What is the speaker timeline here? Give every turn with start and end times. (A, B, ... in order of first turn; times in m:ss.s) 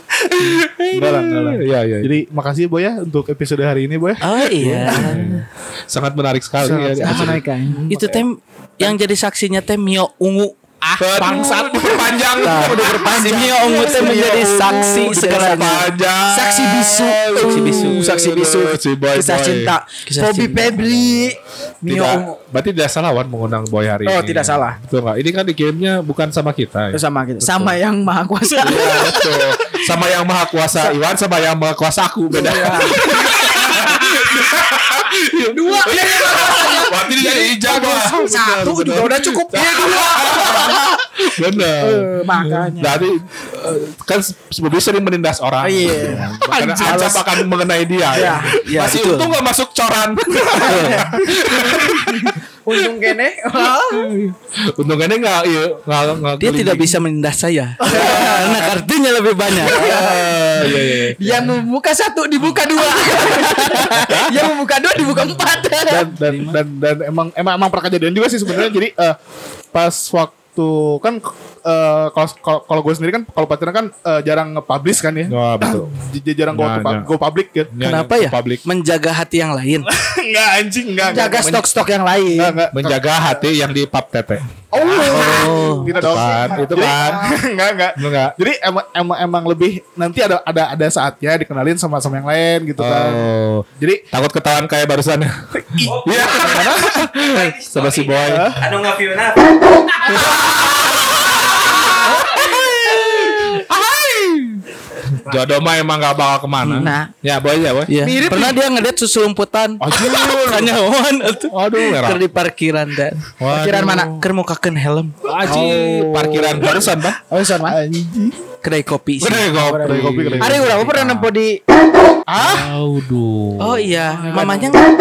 0:00.4-0:02.1 A
0:00.4-0:04.2 B
0:04.2-0:05.4 C
0:04.6-0:07.4 A
0:04.9-0:05.2 B
0:06.6-0:07.8 D
0:07.1-0:08.1 B
0:07.9-0:10.5 C
0:11.0-0:22.4 D
0:11.0-0:19.8 A
0:11.2-0:11.9 B
0:12.4-0:15.9 C
0:17.4-0:18.1 C
0:20.1-0:20.8 C
0:20.8-0:21.3 A
0:21.9-0:27.8 A
0:24.0-0:24.8 D
0:26.9-0:29.8 D
0:28.6-0:57.0 A
0:32.3-0:33.9 D
0:35.5-0:41.0 D
0:38.0-0:38.6 B
0:41.7-0:43.0 D
0:45.6-0:47.3 D
0:46.6-0:47.1 B
0:48.1-0:48.6 D
0:48.6-0:49.4 C
0:50.5-0:51.2 D
0:52.0-0:54.1 D
0:56.4-1:00.0 C
0:57.8-0:58.8 A
0:57.8-0:58.4 D
0:59.6-1:01.6 A
0:59.6-1:00.4 D
1:01.2-1:06.1 D
1:02.9-1:03.8 C
1:03.4-1:04.5 A
1:05.9-1:06.6 A
1:06.1-1:09.2 B
1:09.7-1:17.7 B
1:15.3-1:15.9 A
1:16.5-1:17.1 A
1:17.7-1:18.6 A
1:17.8-1:19.9 C
1:19.9-1:21.6 B
1:21.1-1:22.6 D
1:22.4-1:23.4 B
1:22.7-1:27.4 A
1:24.7-1:33.3 B
1:25.1-1:25.9 C
1:26.0-1:27.4 D
1:28.0-1:28.3 A
1:32.8-1:38.5 A
1:33.8-1:34.0 B
1:35.8-1:37.1 B
1:37.3-1:40.7 C
1:38.2-1:38.6 B
1:40.1-1:42.7 A
1:41.6-1:43.6 C
1:42.5-1:43.0 D
1:43.2-1:44.6 A
1:45.2-1:47.9 A
1:46.6-1:46.9 C
1:46.8-1:47.1 D
1:47.9-1:53.3 C
1:48.0-1:48.6 D
1:49.8-1:50.8 A
1:51.5-1:52.3 A
1:53.4-1:54.1 A
1:53.5-1:54.2 D
1:54.1-1:55.2 C
1:55.2-1:57.2 A
1:55.4-1:56.8 D
1:57.3-1:57.8 D
1:57.7-1:58.4 B
1:58.6-1:59.5 C
1:59.2-2:01.3 A
1:59.5-2:01.6 D
1:59.8-2:00.8 B
2:02.3-2:02.7 B
2:02.4-2:04.7 A
2:03.6-2:04.8 C
2:04.3-2:04.8 B